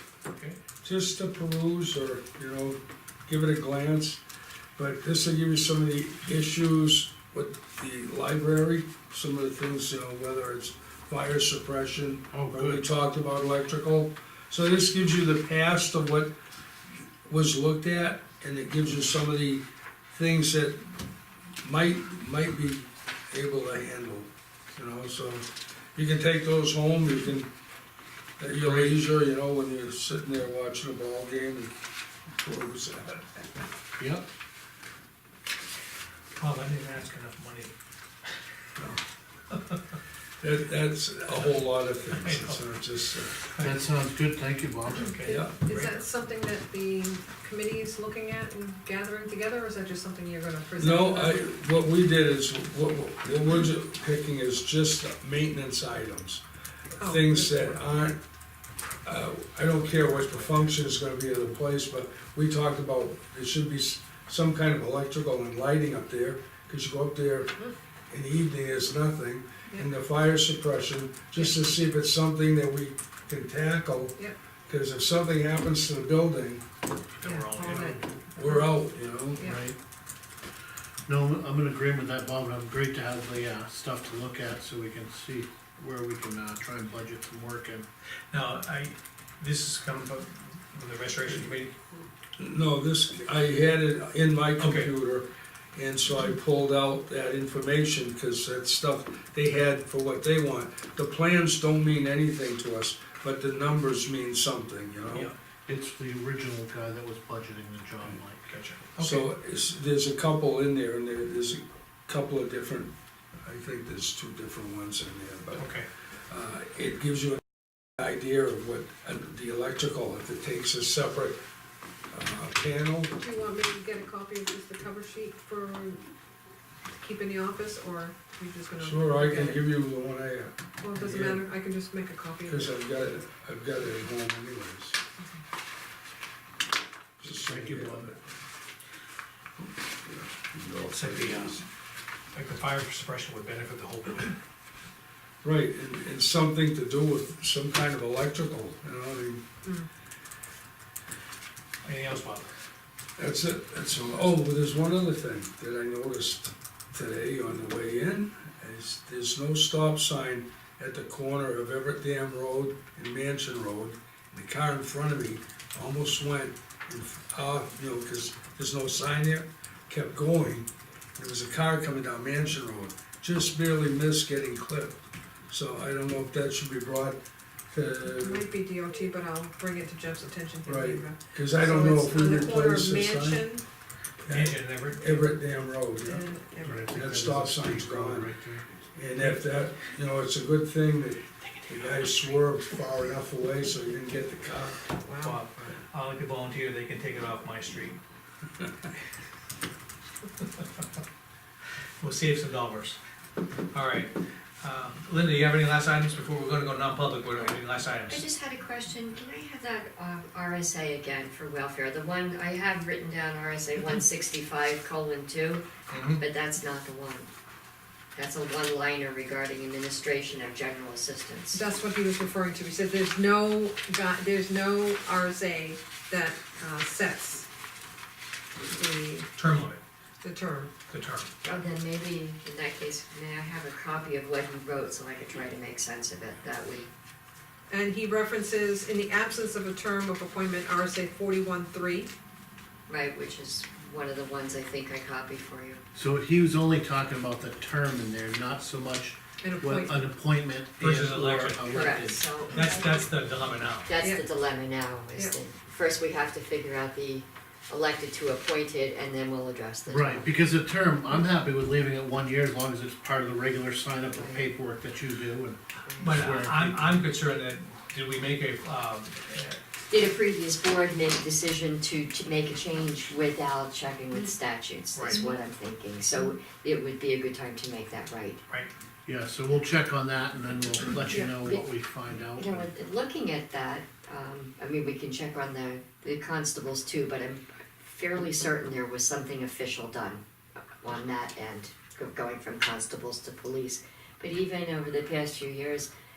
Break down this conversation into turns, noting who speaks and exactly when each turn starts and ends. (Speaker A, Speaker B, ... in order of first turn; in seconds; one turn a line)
Speaker A: 0.3-0.6
Speaker B: 0.8-4.2
Speaker B: 4.8-16.3
Speaker C: 12.3-12.8
Speaker B: 17.3-20.8
Speaker B: 21.6-27.5
Speaker B: 28.4-31.7
Speaker A: 28.6-28.9
Speaker B: 32.3-33.5
Speaker C: 34.0-34.3
Speaker A: 36.4-37.7
Speaker A: 39.5-39.8
Speaker B: 40.4-43.4
Speaker A: 42.1-42.6
Speaker A: 43.5-43.8
Speaker C: 43.6-45.1
Speaker A: 45.0-45.9
Speaker D: 45.0-51.5
Speaker B: 45.2-45.5
Speaker B: 50.8-56.4
Speaker B: 56.9-58.2
Speaker D: 57.0-57.9
Speaker B: 59.0-67.5
Speaker B: 68.1-76.7
Speaker A: 77.2-78.0
Speaker D: 77.2-78.7
Speaker B: 77.6-79.5
Speaker D: 79.4-79.7
Speaker C: 79.4-79.8
Speaker C: 81.1-87.9
Speaker A: 88.3-91.8
Speaker B: 92.4-105.3
Speaker A: 94.6-94.9
Speaker C: 105.7-108.5
Speaker A: 108.5-109.3
Speaker B: 109.0-112.9
Speaker B: 113.4-115.7
Speaker A: 115.6-115.8
Speaker B: 116.3-117.5
Speaker B: 118.0-121.4
Speaker B: 122.1-123.1
Speaker D: 123.1-126.1
Speaker D: 127.0-129.7
Speaker B: 128.8-131.4
Speaker D: 130.8-132.8
Speaker B: 132.5-135.0
Speaker B: 137.2-138.2
Speaker C: 137.4-138.1
Speaker B: 139.6-141.6
Speaker A: 140.9-141.6
Speaker A: 142.3-144.4
Speaker B: 145.4-149.5
Speaker A: 151.8-152.5
Speaker B: 153.2-177.2
Speaker B: 177.7-178.5
Speaker D: 178.0-183.6
Speaker B: 180.7-183.5
Speaker A: 184.2-185.3
Speaker B: 184.2-186.3
Speaker D: 186.0-186.9
Speaker C: 186.6-188.7
Speaker B: 186.9-188.3
Speaker B: 188.9-194.9
Speaker A: 191.4-192.4
Speaker D: 195.0-195.8
Speaker A: 195.2-198.0
Speaker A: 202.0-203.0
Speaker A: 203.7-208.2
Speaker E: 208.1-217.3
Speaker C: 215.9-216.2
Speaker E: 218.1-221.6
Speaker D: 221.5-227.5
Speaker D: 228.6-229.3
Speaker A: 229.4-229.8
Speaker D: 230.2-230.7
Speaker A: 230.9-231.3
Speaker E: 231.4-236.9
Speaker D: 237.7-242.1
Speaker E: 242.9-245.8
Speaker C: 245.9-252.3
Speaker D: 249.4-250.0
Speaker A: 250.8-252.0
Speaker E: 251.7-253.1
Speaker A: 252.5-253.9
Speaker E: 253.8-260.3
Speaker C: 259.9-266.9
Speaker E: 264.1-264.4
Speaker E: 265.9-266.2
Speaker A: 266.0-269.6
Speaker E: 269.9-278.4
Speaker A: 274.9-275.2
Speaker C: 279.1-282.7
Speaker D: 281.1-281.4
Speaker E: 281.4-281.7
Speaker E: 282.4-290.2
Speaker E: 290.8-295.9